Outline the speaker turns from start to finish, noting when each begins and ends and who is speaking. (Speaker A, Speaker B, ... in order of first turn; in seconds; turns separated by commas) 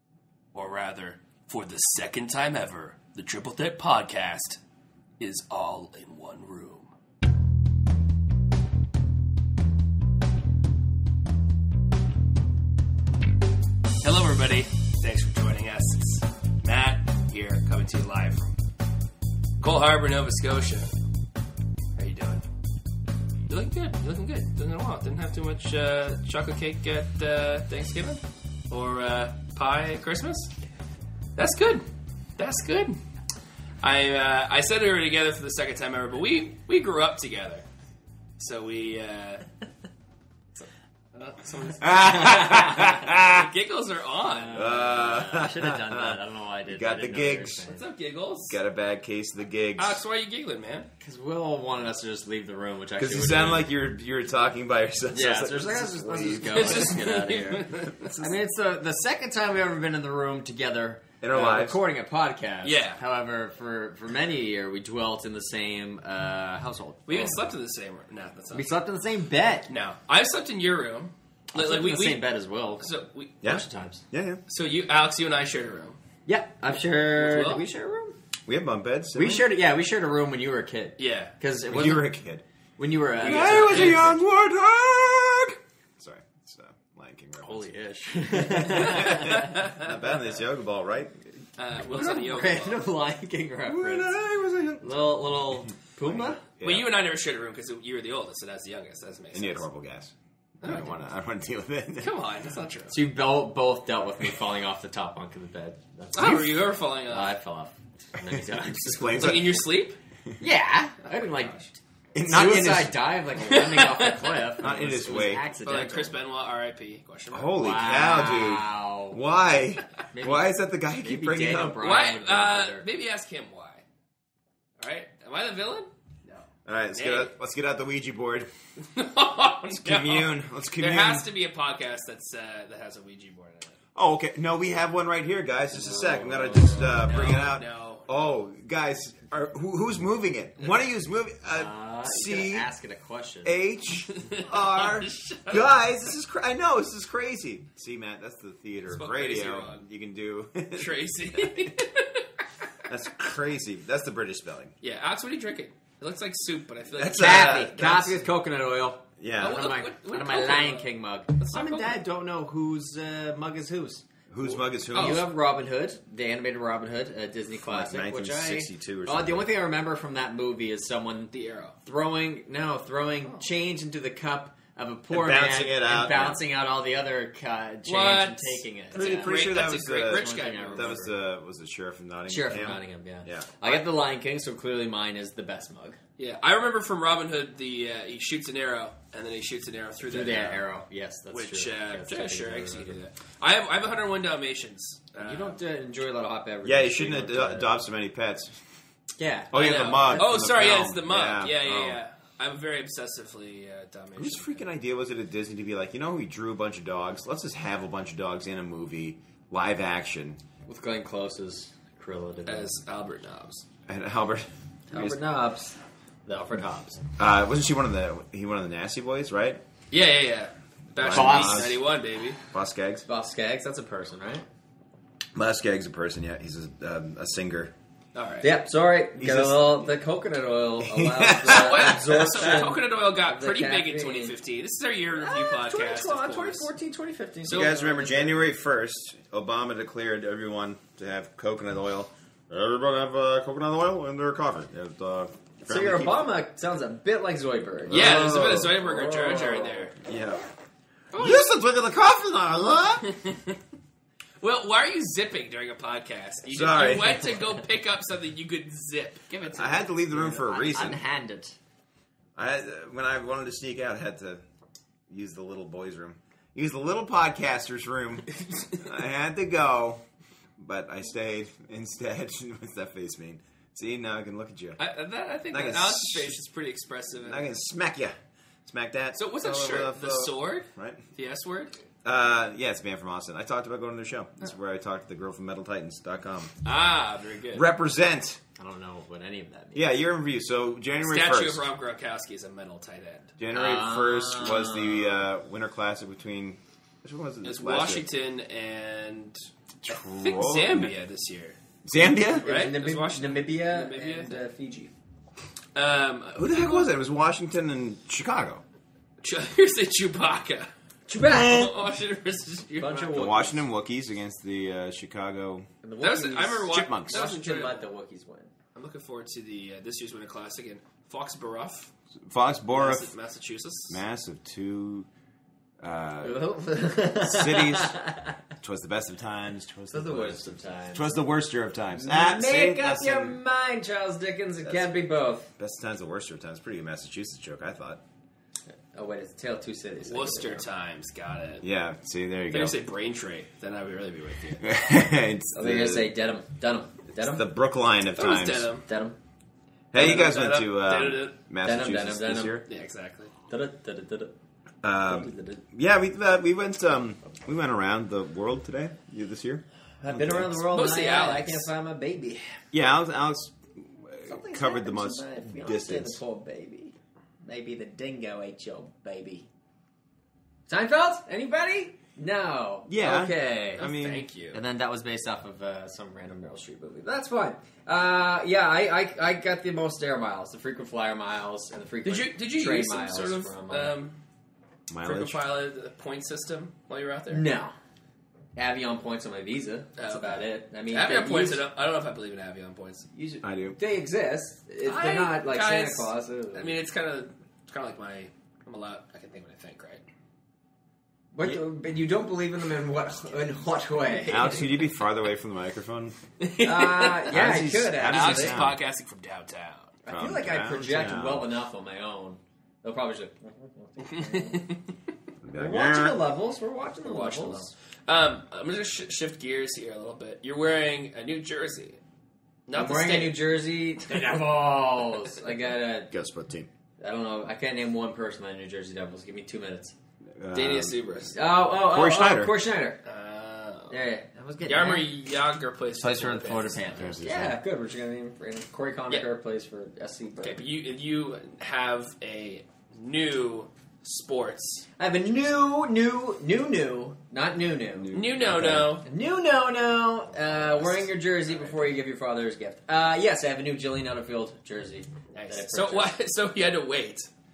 Speaker A: 0.5-4.6, Speaker A: 5.2-6.9, Speaker A: 14.0-18.6, Speaker A: 19.6-20.9, Speaker A: 21.9-22.4, Speaker A: 23.5-30.5, Speaker A: 31.4-31.9, Speaker A: 32.4-33.0, Speaker A: 33.8-37.6, Speaker A: 38.4-39.5, Speaker A: 40.5-44.5, Speaker B: 41.8-43.5, Speaker C: 44.2-47.8, Speaker B: 44.5-47.6, Speaker A: 47.7-48.6, Speaker B: 48.5-50.0, Speaker A: 49.8-50.9, Speaker C: 51.0-53.7, Speaker B: 53.0-57.0, Speaker C: 55.1-67.4, Speaker A: 56.5-58.3, Speaker B: 61.2-61.8, Speaker A: 62.6-63.0, Speaker A: 67.1-68.8, Speaker C: 68.5-69.7, Speaker A: 69.7-72.2, Speaker C: 71.5-72.9, Speaker A: 72.8-73.4, Speaker B: 73.4-74.4, Speaker C: 73.4-74.0, Speaker A: 74.5-76.0, Speaker C: 76.2-78.2, Speaker A: 77.1-77.6, Speaker B: 78.5-79.5, Speaker C: 79.2-82.1, Speaker A: 81.0-81.3, Speaker B: 81.7-82.4, Speaker C: 82.8-84.2, Speaker A: 83.2-84.1, Speaker B: 83.2-91.1, Speaker C: 87.4-89.5, Speaker A: 88.5-90.0, Speaker A: 91.6-92.8, Speaker C: 91.9-94.2, Speaker B: 93.7-96.9, Speaker C: 94.8-96.4, Speaker A: 96.6-99.6, Speaker B: 99.3-102.1, Speaker A: 100.6-101.0, Speaker A: 102.0-102.9, Speaker C: 102.9-109.4, Speaker A: 106.1-107.3, Speaker B: 106.2-106.5, Speaker B: 108.2-109.6, Speaker A: 109.2-110.0, Speaker C: 110.4-116.2, Speaker B: 112.1-113.0, Speaker A: 113.5-114.4, Speaker B: 114.6-115.5, Speaker A: 115.6-117.5, Speaker B: 117.3-121.9, Speaker C: 117.6-119.2, Speaker C: 120.1-122.9, Speaker A: 121.8-123.8, Speaker A: 124.8-127.3, Speaker B: 126.7-128.5, Speaker A: 128.8-133.7, Speaker B: 129.7-131.3, Speaker B: 133.9-142.7, Speaker C: 135.8-137.0, Speaker A: 137.0-138.1, Speaker C: 141.5-143.6, Speaker B: 143.4-151.6, Speaker A: 144.1-145.7, Speaker A: 148.9-149.8, Speaker A: 150.7-152.4, Speaker B: 152.9-154.7, Speaker A: 154.8-158.2, Speaker B: 157.0-158.1, Speaker C: 157.2-164.1, Speaker B: 159.2-159.7, Speaker A: 159.4-162.0, Speaker B: 164.3-165.3, Speaker A: 164.4-165.2, Speaker C: 164.9-171.3, Speaker B: 167.6-169.5, Speaker A: 171.3-171.8, Speaker C: 171.8-181.1, Speaker B: 175.1-176.4, Speaker A: 177.9-181.0, Speaker B: 178.9-183.5, Speaker C: 182.3-186.0, Speaker A: 186.2-190.6, Speaker C: 190.0-193.0, Speaker A: 191.3-195.6, Speaker C: 195.2-197.7, Speaker B: 196.6-198.5, Speaker C: 199.2-200.5, Speaker B: 199.5-202.0, Speaker A: 199.5-204.7, Speaker B: 204.2-210.4, Speaker C: 210.7-212.7, Speaker A: 212.4-213.7, Speaker B: 213.9-215.2, Speaker C: 214.9-217.0, Speaker B: 217.2-219.6, Speaker A: 219.9-222.4, Speaker B: 220.9-221.8, Speaker C: 221.0-221.8, Speaker B: 222.5-223.0, Speaker C: 223.1-224.4, Speaker B: 225.3-227.7, Speaker A: 228.1-228.5, Speaker C: 228.4-234.3, Speaker B: 229.2-229.8, Speaker B: 230.8-232.7, Speaker A: 231.5-236.7, Speaker C: 235.2-238.4, Speaker A: 237.4-237.8, Speaker B: 237.5-246.3, Speaker C: 245.7-249.9, Speaker B: 247.9-248.8, Speaker A: 247.9-249.9, Speaker B: 249.9-250.4, Speaker B: 251.1-253.1, Speaker A: 251.1-251.5, Speaker A: 254.4-259.9, Speaker B: 256.5-257.3, Speaker B: 259.5-261.0, Speaker C: 260.1-261.6, Speaker B: 262.4-264.4, Speaker B: 265.1-270.0, Speaker B: 270.6-274.8, Speaker A: 274.8-277.5, Speaker B: 275.5-276.3, Speaker B: 277.2-281.0, Speaker A: 279.2-281.7, Speaker B: 282.0-286.5, Speaker A: 286.6-287.7, Speaker B: 287.5-288.4, Speaker C: 288.6-289.9, Speaker B: 289.7-291.6, Speaker A: 291.0-293.3, Speaker B: 293.4-298.0, Speaker C: 293.5-295.2, Speaker A: 297.4-299.4, Speaker B: 299.8-300.9, Speaker A: 299.9-301.6, Speaker B: 301.8-302.5, Speaker C: 302.3-304.9, Speaker A: 302.4-304.4, Speaker A: 305.7-306.9, Speaker B: 306.4-308.6, Speaker A: 309.2-313.4, Speaker C: 311.1-311.7, Speaker C: 312.8-313.6, Speaker B: 313.1-315.7, Speaker C: 315.8-318.5, Speaker A: 316.0-317.8, Speaker B: 316.7-317.2, Speaker A: 318.7-321.9, Speaker B: 322.2-323.1, Speaker A: 322.7-324.0, Speaker B: 323.9-325.1, Speaker B: 325.8-326.4, Speaker C: 326.2-328.4, Speaker B: 327.2-328.0, Speaker B: 328.6-330.4, Speaker C: 329.9-331.1, Speaker B: 330.9-333.4, Speaker C: 331.9-335.5, Speaker B: 334.6-334.9, Speaker B: 335.6-338.0, Speaker C: 338.9-340.7, Speaker A: 340.0-341.6, Speaker B: 341.6-342.8, Speaker A: 342.5-344.7, Speaker B: 344.6-346.1, Speaker C: 345.5-347.5, Speaker B: 347.2-348.7, Speaker A: 348.1-348.9, Speaker C: 348.9-349.2, Speaker B: 349.9-352.6, Speaker A: 349.9-351.4, Speaker C: 351.6-352.6, Speaker A: 352.6-353.3, Speaker C: 353.5-354.3, Speaker B: 354.8-360.6, Speaker C: 355.0-355.6, Speaker C: 360.0-362.6, Speaker A: 360.7-361.7, Speaker B: 362.7-366.2, Speaker C: 364.2-369.5, Speaker C: 370.7-373.8, Speaker B: 372.9-374.3, Speaker A: 373.8-374.6, Speaker C: 374.5-383.9, Speaker A: 382.0-384.2, Speaker B: 384.9-385.4, Speaker A: 385.0-387.5, Speaker C: 387.3-387.7, Speaker C: 388.6-391.6, Speaker A: 390.0-393.1, Speaker C: 393.1-396.7, Speaker B: 393.4-393.8, Speaker A: 394.8-400.0, Speaker C: 401.3-404.6, Speaker A: 404.1-404.6, Speaker B: 404.3-406.2, Speaker A: 406.4-407.4, Speaker C: 406.6-408.6, Speaker B: 407.3-408.8, Speaker A: 408.0-409.9, Speaker C: 410.0-414.7, Speaker B: 410.1-411.5, Speaker A: 414.0-414.8, Speaker B: 415.4-416.2, Speaker C: 415.5-417.7, Speaker A: 417.0-422.0, Speaker A: 422.7-423.4, Speaker C: 422.7-426.1, Speaker B: 426.1-426.7, Speaker C: 427.0-429.9, Speaker B: 430.4-430.9, Speaker A: 430.5-431.4, Speaker C: 431.3-433.0, Speaker B: 431.8-432.5, Speaker A: 433.0-434.0, Speaker C: 433.9-435.1, Speaker A: 434.6-437.1, Speaker C: 436.0-440.6, Speaker B: 436.9-437.6, Speaker A: 440.4-444.9, Speaker C: 445.0-448.1, Speaker B: 447.9-449.0, Speaker A: 448.1-449.1, Speaker C: 449.0-456.1, Speaker A: 450.6-451.9, Speaker A: 455.3-457.3